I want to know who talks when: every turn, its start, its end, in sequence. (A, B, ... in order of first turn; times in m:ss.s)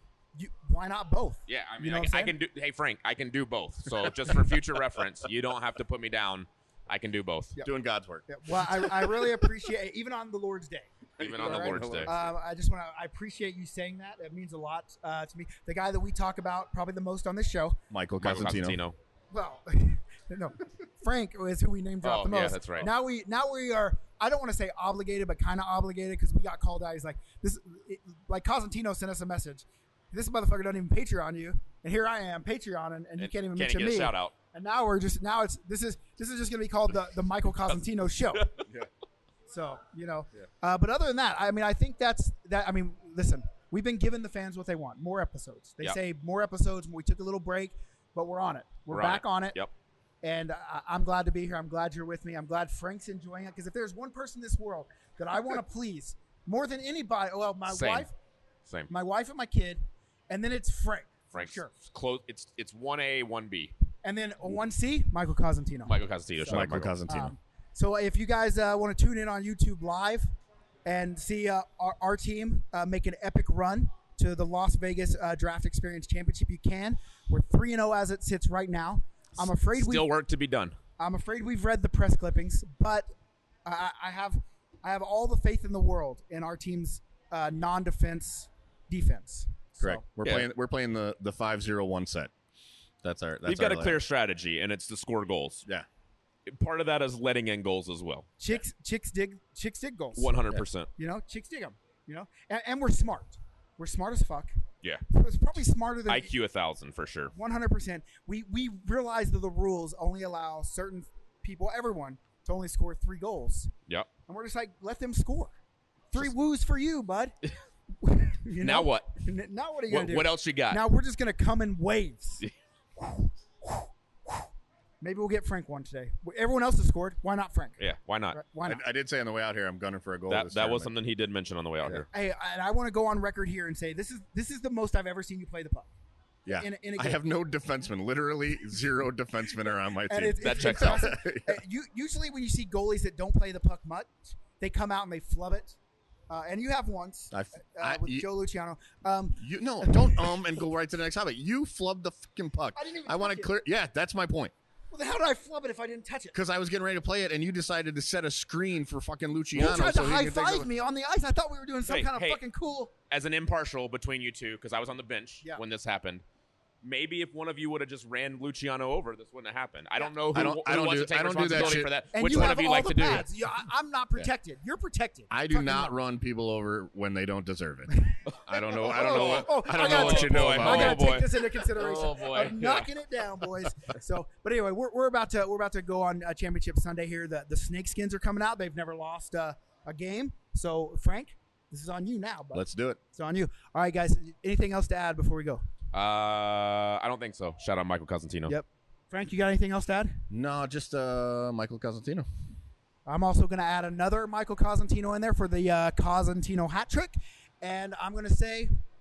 0:00.4-0:02.3 A
0:01.5-0:07.6 B
0:07.6-0:09.1 C
0:08.3-0:17.8 A
0:11.2-0:12.1 B
0:11.2-0:12.3 C
0:17.9-0:18.8 C
0:18.2-0:19.0 B
0:19.3-0:38.5 A
0:22.0-0:22.9 B
0:33.2-0:34.3 B
0:39.5-0:49.6 A
0:48.9-0:49.7 B
0:50.2-0:58.1 A
0:57.7-0:58.1 B
0:58.9-1:01.7 A
1:01.3-1:03.7 B
1:04.0-1:06.0 A
1:05.9-1:07.0 B
1:06.5-1:07.3 C
1:07.1-1:10.3 A
1:10.9-1:20.1 A
1:19.4-1:20.8 B
1:21.0-1:23.1 A
1:23.7-1:30.0 A
1:29.8-1:32.3 C
1:30.2-1:30.5 B
1:33.0-1:34.0 C
1:33.4-1:35.6 B
1:36.5-1:38.3 B
1:38.4-1:40.3 A
1:40.2-1:40.9 B
1:41.0-1:46.3 A
1:46.1-1:47.3 B
1:47.3-1:53.7 A
1:54.3-1:55.6 A
1:56.1-1:57.4 A
1:58.0-2:02.4 A
1:58.6-1:59.1 B
1:59.9-2:00.8 B
2:03.0-2:04.5 A
2:05.0-2:07.8 A
2:07.8-2:08.4 B
2:08.3-2:08.8 A
2:08.6-2:10.9 C
2:10.3-2:12.1 B
2:12.1-2:15.9 A
2:16.5-2:21.6 C
2:16.6-2:17.2 A
2:20.1-2:25.8 A
2:20.4-2:21.1 B
2:26.3-2:30.3 A
2:27.3-2:28.2 C
2:29.4-2:34.5 C
2:32.8-2:33.5 A
2:34.9-2:36.4 A
2:36.3-2:40.7 C
2:39.5-2:42.9 A
2:41.9-2:42.4 B
2:43.1-2:46.2 B
2:46.8-2:53.3 B
2:50.3-2:52.6 C
2:52.1-2:55.9 A
2:55.3-2:57.9 C
2:57.9-3:15.6 A
2:58.5-3:01.2 C
2:58.8-3:02.9 B
3:12.5-3:13.0 C
3:15.9-3:18.5 B
3:18.5-3:20.2 A
3:20.3-3:22.3 C
3:23.1-3:28.7 A